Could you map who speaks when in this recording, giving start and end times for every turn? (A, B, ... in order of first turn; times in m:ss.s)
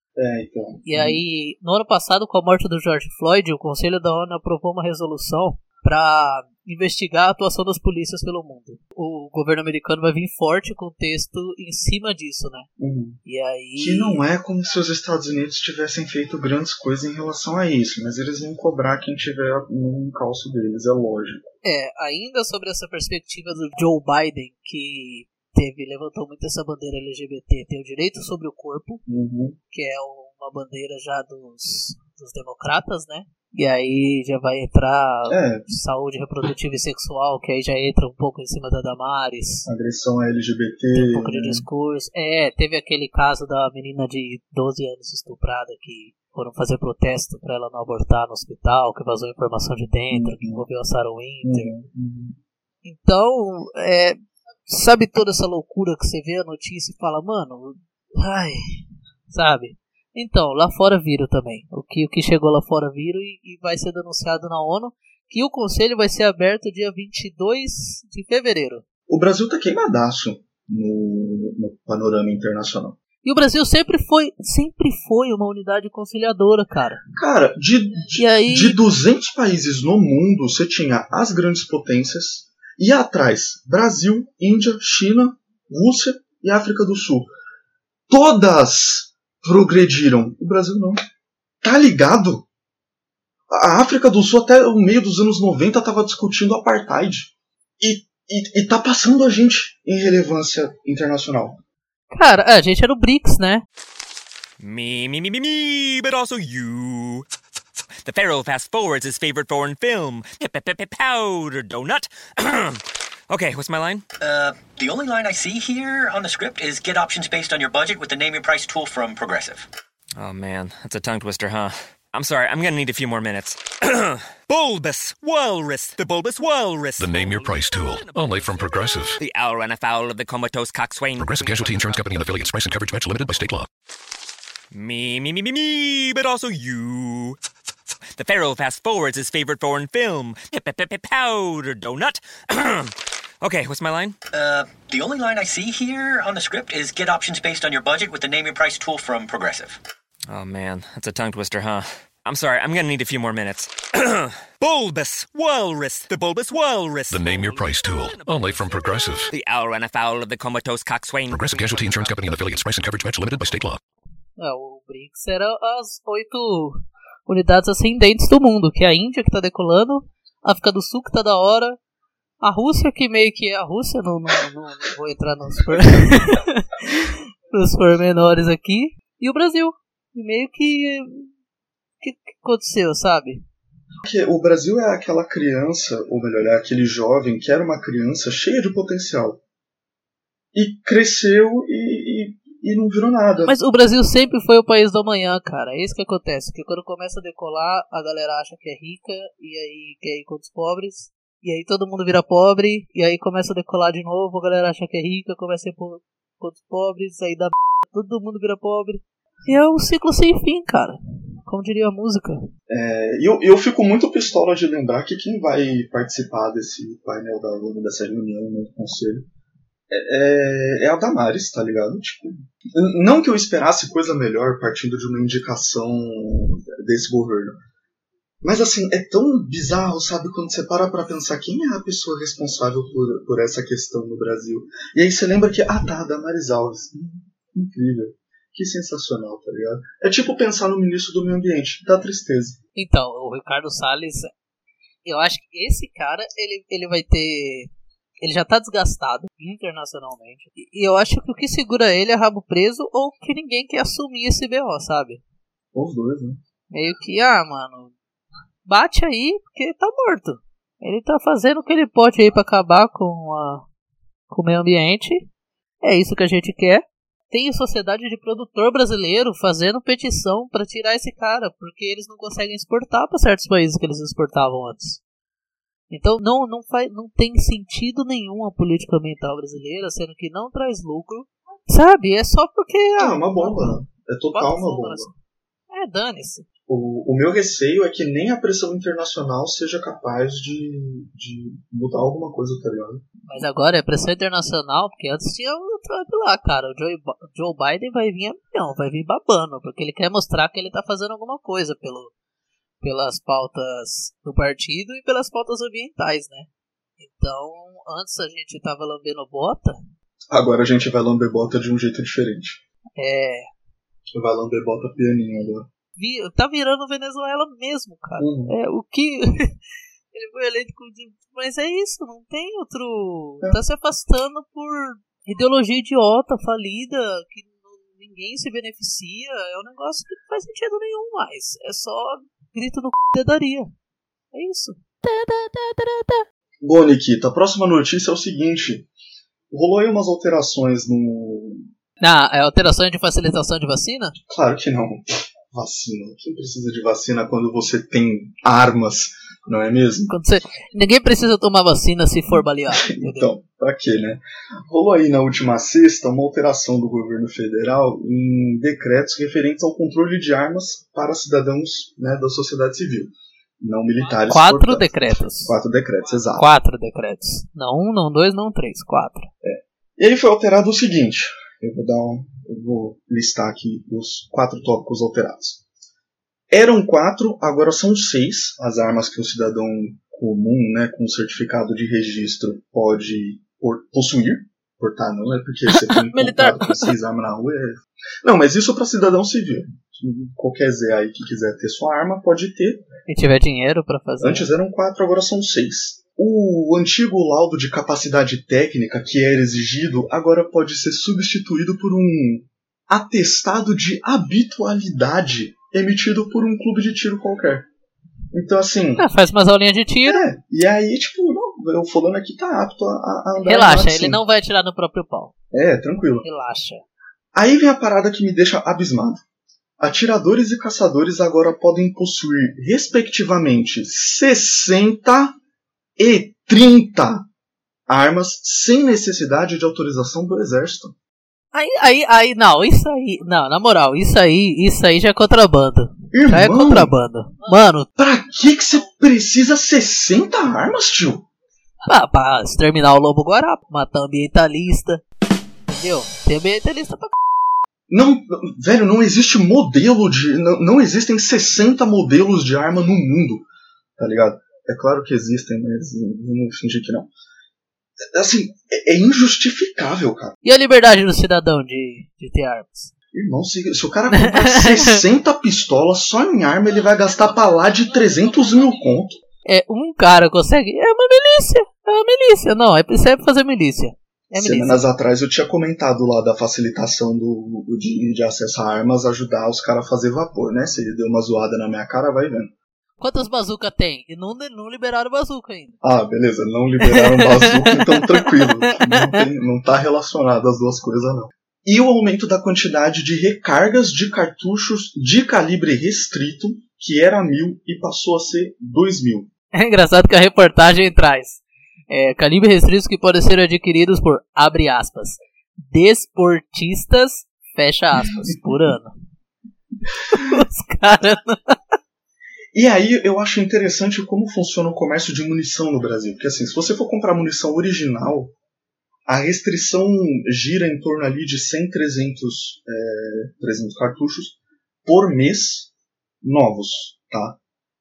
0:00.2-0:01.2 A
0:00.8-0:12.7 B
0:12.8-0:13.2 A
0:13.2-0:14.2 B
0:13.8-0:21.5 A
0:21.6-0:29.0 B
0:29.1-0:29.6 A
0:29.7-0:39.6 B
0:35.3-0:35.6 A
0:39.6-0:41.6 A
0:40.9-0:51.7 B
0:50.1-0:50.6 A
0:51.4-0:52.4 A
0:52.8-1:08.8 B
1:09.1-1:13.0 A
1:13.2-1:17.0 B
1:17.1-1:27.3 A
1:18.2-1:18.8 B
1:28.1-1:31.0 A
1:31.6-1:32.4 A
1:33.5-1:41.6 A
1:42.1-1:43.6 B
1:44.6-1:47.2 C
1:48.0-1:54.0 C
1:54.2-1:59.7 D
2:00.2-2:12.5 C
2:07.0-2:09.2 E
2:11.2-2:13.7 E
2:14.7-2:17.4 C
2:18.1-2:24.2 C
2:24.3-2:29.8 D
2:30.3-2:42.6 C
2:37.1-2:39.3 E
2:41.3-2:43.8 E
2:43.4-2:43.6 C
2:44.4-2:51.8 B
2:52.4-3:01.3 B
2:55.7-2:56.1 A
3:02.0-3:03.4 B
3:04.0-3:09.4 A
3:10.5-3:13.6 A
3:13.4-3:32.4 B
3:32.7-3:39.3 A
3:39.9-3:47.6 A
3:48.4-4:02.6 A
4:02.8-4:04.3 B
4:05.0-4:07.7 B
4:08.2-4:15.2 B
4:15.7-4:16.4 A
4:16.7-4:17.9 B
4:18.6-4:23.6 B
4:24.3-4:25.3 B
4:25.8-4:35.0 B
4:35.9-4:43.8 B
4:43.0-4:45.1 A
4:44.3-4:45.1 B
4:45.7-4:46.4 B
4:46.7-4:53.0 A
4:53.3-5:02.1 B
5:02.8-5:06.5 B
5:07.0-5:09.9 B
5:10.3-5:12.6 A
5:13.0-5:13.5 B
5:14.1-5:15.7 A
5:16.0-5:19.6 B
5:18.2-5:18.6 A
5:20.1-5:33.7 B
5:34.3-5:36.1 B
5:36.6-5:38.9 A
5:39.5-5:41.7 A
5:42.0-5:44.2 B
5:44.3-5:50.1 A
5:50.1-5:53.3 B
5:52.7-6:06.5 A
6:04.3-6:05.5 B
6:06.4-6:09.3 B
6:09.4-6:15.6 A
6:16.5-6:32.8 A
6:25.7-6:26.9 B
6:33.1-6:34.5 B
6:34.2-6:47.7 A
6:48.3-6:49.1 A
6:49.0-6:50.2 B
6:50.0-6:54.2 A
6:53.4-6:55.3 B
6:55.5-6:56.2 A
6:56.2-6:56.8 B
6:57.3-6:59.2 A
6:59.8-7:05.4 A
7:06.0-7:07.3 A
7:07.9-7:10.9 A
7:11.5-7:17.9 B
7:16.1-7:16.9 A
7:18.0-7:21.2 A
7:21.8-7:25.0 B
7:25.7-7:27.1 B
7:27.9-7:33.4 A
7:34.0-7:37.1 A
7:38.0-7:40.3 A
7:40.4-7:42.9 B
7:43.1-7:49.2 A
7:44.1-7:45.0 B
7:49.4-7:54.8 B
7:54.3-8:02.5 A
8:03.0-8:05.8 B
8:05.8-8:19.3 A
8:06.8-8:09.2 B
8:19.5-8:28.9 B
8:30.1-8:31.7 B
8:32.5-8:38.3 A
8:39.1-8:45.7 A
8:46.2-8:47.4 A